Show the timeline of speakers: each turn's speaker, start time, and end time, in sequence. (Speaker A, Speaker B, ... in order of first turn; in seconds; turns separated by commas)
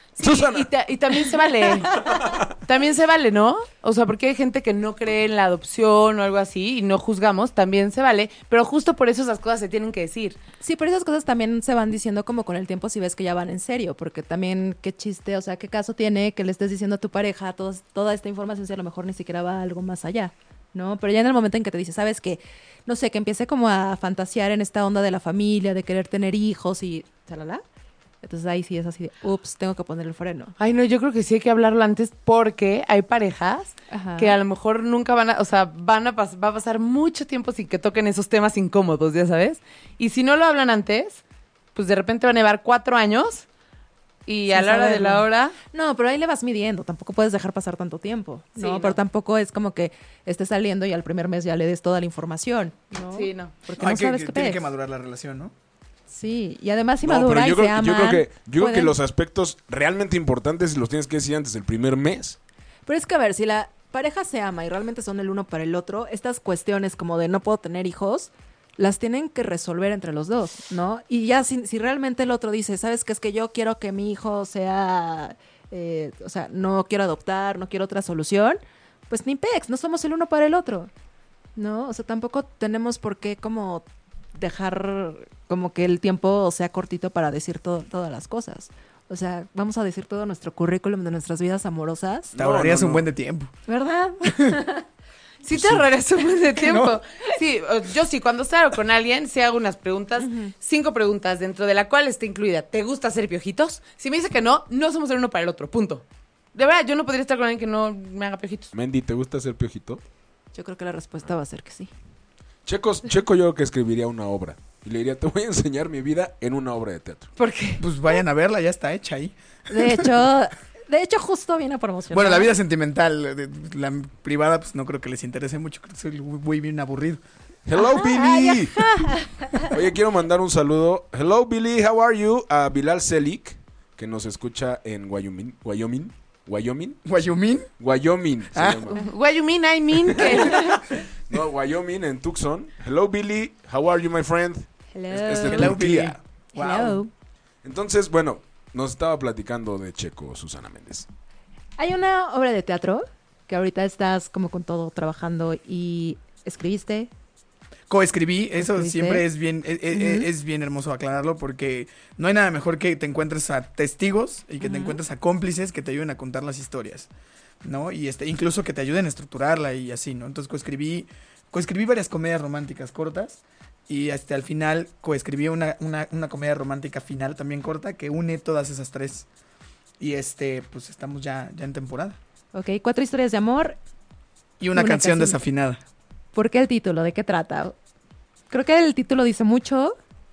Speaker A: 0.2-10.4, Speaker B: 0.2-0.7, Speaker B: 1.9-2.5, Speaker C: 10.6-27.6, Speaker C: 28.2-30.5, Speaker A: 30.6-41.2, Speaker C: 33.9-34.4, Speaker A: 41.8-43.5, Speaker A: 44.3-45.6, Speaker C: 44.5-54.7, Speaker A: 48.6-49.0, Speaker A: 53.1-53.5, Speaker D: 53.8-55.5, Speaker C: 56.1-59.0, Speaker B: 57.0-62.4, Speaker C: 62.9-80.9, Speaker C: 81.6-92.3, Speaker B: 92.3-93.1, Speaker D: 92.3-93.5, Speaker C: 93.7-94.8, Speaker D: 94.3-94.6, Speaker A: 95.4-106.0, Speaker D: 96.6-97.0, Speaker C: 100.2-100.5, Speaker A: 106.5-108.7, Speaker B: 108.7-110.0, Speaker C: 110.5-111.9, Speaker B: 112.7-117.3, Speaker C: 117.4-117.8, Speaker D: 117.8-120.1, Speaker C: 119.7-122.5, Speaker D: 122.1-127.2, Speaker B: 127.7-129.0, Speaker C: 127.8-129.7, Speaker B: 129.6-137.0, Speaker D: 137.1-137.7, Speaker B: 137.8-139.0, Speaker D: 138.5-138.9, Speaker A: 138.9-140.9, Speaker B: 140.5-146.2, Speaker C: 144.9-145.8, Speaker D: 145.5-147.0, Speaker C: 146.6-147.1, Speaker B: 147.6-151.1, Speaker C: 151.8-157.1, Speaker D: 157.9-167.1, Speaker C: 158.6-159.3, Speaker C: 159.9-160.3, Speaker C: 164.6-165.0, Speaker D: 167.6-179.3, Speaker D: 180.0-182.2, Speaker C: 182.5-183.8, Speaker D: 184.6-185.8, Speaker C: 184.7-185.4, Speaker C: 186.3-187.8, Speaker C: 188.5-190.0